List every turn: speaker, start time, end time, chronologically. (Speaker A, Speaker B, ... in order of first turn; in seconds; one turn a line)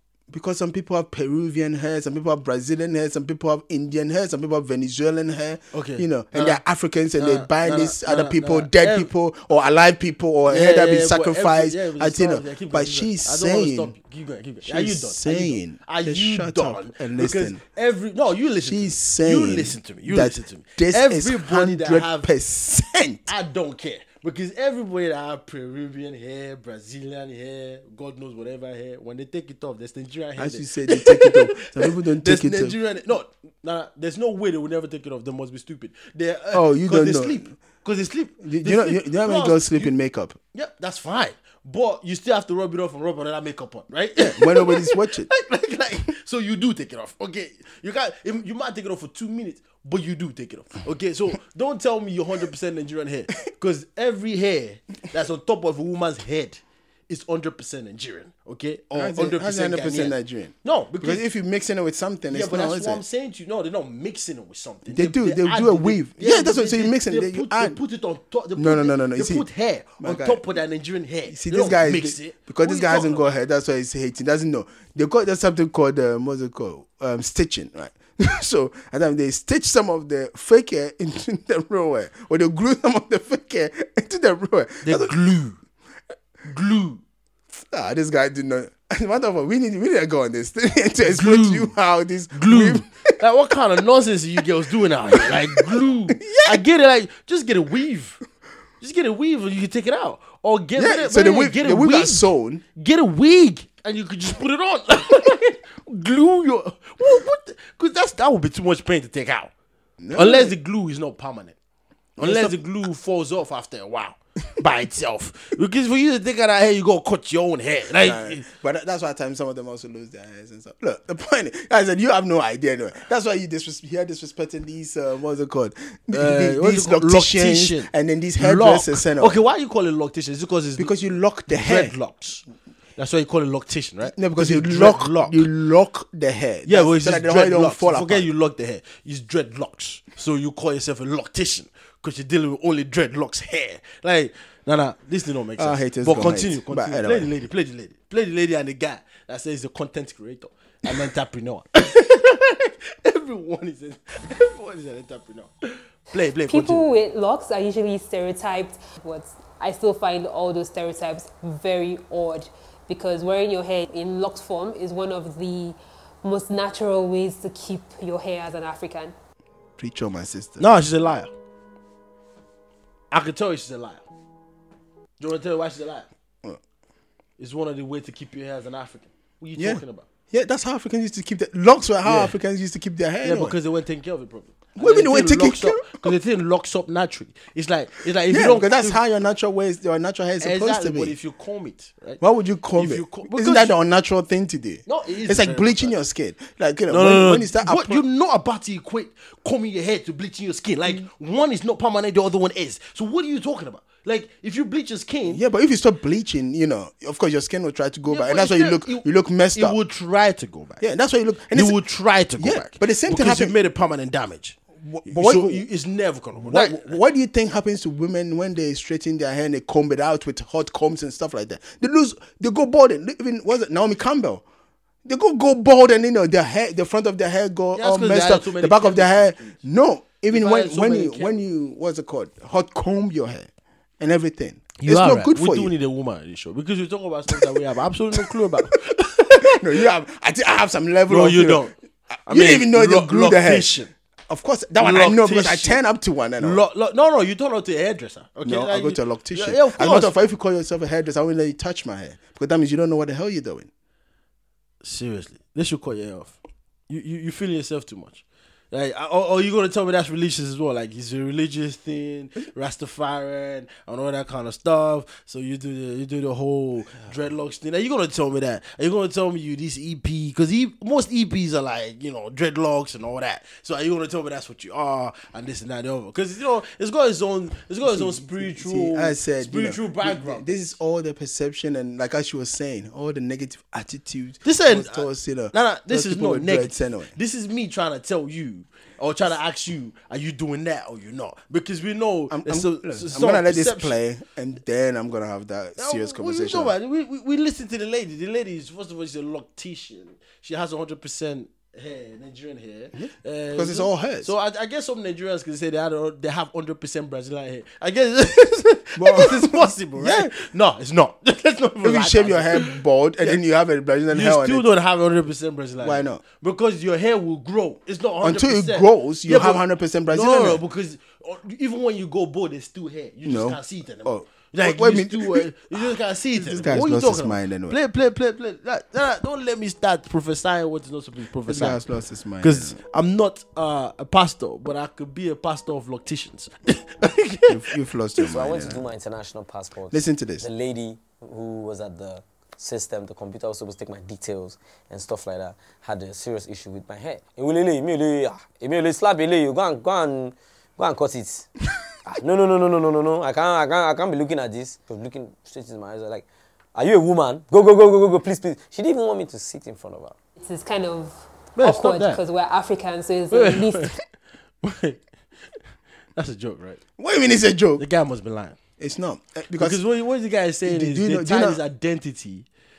Speaker A: 0.3-13.9
Speaker B: 5.7-6.6
Speaker B: 7.2-9.1
Speaker B: 10.5-22.3
Speaker A: 14.6-17.6
Speaker A: 18.6-23.3
Speaker B: 23.3-39.9
Speaker A: 30.4-32.8
Speaker A: 36.5-37.4
Speaker A: 38.4-40.4
Speaker B: 40.5-61.2
Speaker A: 44.2-45.3
Speaker A: 58.9-63.0
Speaker B: 62.3-73.2
Speaker A: 64.9-67.8
Speaker A: 68.6-69.5
Speaker A: 70.0-70.4
Speaker A: 71.3-85.2
Speaker B: 84.8-85.6
Speaker B: 86.5-87.0
Speaker A: 87.5-93.2
Speaker B: 91.0-91.7
Speaker B: 92.3-98.2
Speaker A: 95.0-96.6
Speaker B: 98.8-109.5
Speaker A: 100.8-102.6
Speaker A: 110.0-110.5
Speaker B: 110.1-111.6
Speaker A: 112.2-112.6
Speaker B: 112.2-118.5
Speaker A: 118.0-129.4
Speaker B: 126.1-130.9
Speaker A: 130.8-131.9
Speaker B: 131.5-132.4
Speaker B: 133.0-135.5
Speaker A: 134.0-138.3
Speaker B: 136.7-156.8
Speaker A: 145.6-147.3
Speaker C: 156.5-169.1
Speaker A: 169.8-170.7
Speaker B: 170.6-171.3
Speaker B: 173.1-174.0
Speaker B: 175.2-176.1
Speaker B: 177.4-180.1
Speaker A: 179.6-183.6
Speaker B: 182.0-182.4
Speaker B: 183.2-189.0
Speaker A: 184.8-186.1
Speaker A: 188.3-191.1
Speaker B: 190.4-192.2
Speaker A: 192.2-198.0
Speaker B: 192.8-193.8
Speaker B: 194.9-196.0
Speaker B: 196.9-205.4
Speaker A: 205.3-209.8
Speaker B: 208.1-210.8
Speaker A: 210.8-211.8
Speaker B: 211.5-217.0
Speaker A: 212.4-213.6
Speaker A: 214.8-215.6
Speaker A: 216.4-224.4
Speaker A: 225.1-233.5
Speaker B: 227.8-229.6
Speaker B: 230.3-231.3
Speaker A: 234.0-235.7
Speaker B: 234.8-239.8
Speaker A: 239.4-241.7
Speaker B: 241.1-241.7
Speaker A: 242.3-243.8
Speaker B: 242.3-243.9
Speaker A: 244.3-246.6
Speaker B: 244.8-245.8
Speaker B: 246.4-250.1
Speaker A: 248.4-253.7
Speaker B: 254.8-256.4
Speaker B: 256.9-280.5
Speaker A: 277.9-287.1
Speaker B: 284.4-293.9
Speaker A: 292.3-296.8
Speaker B: 295.8-313.4
Speaker A: 302.9-304.3
Speaker A: 309.0-310.3
Speaker A: 311.8-314.6
Speaker B: 314.1-331.8
Speaker A: 315.8-316.2
Speaker A: 318.2-320.6
Speaker A: 323.2-327.8
Speaker A: 331.5-332.8
Speaker B: 332.4-337.7
Speaker A: 337.5-338.9
Speaker D: 338.2-351.5
Speaker A: 339.9-340.5
Speaker D: 352.1-360.1
Speaker C: 360.4-363.9
Speaker B: 361.6-362.2
Speaker B: 363.3-364.0
Speaker B: 364.6-365.0
Speaker B: 366.1-366.8
Speaker A: 367.0-367.9
Speaker B: 367.8-368.6
Speaker A: 368.8-369.8
Speaker B: 369.6-372.4
Speaker A: 370.6-371.6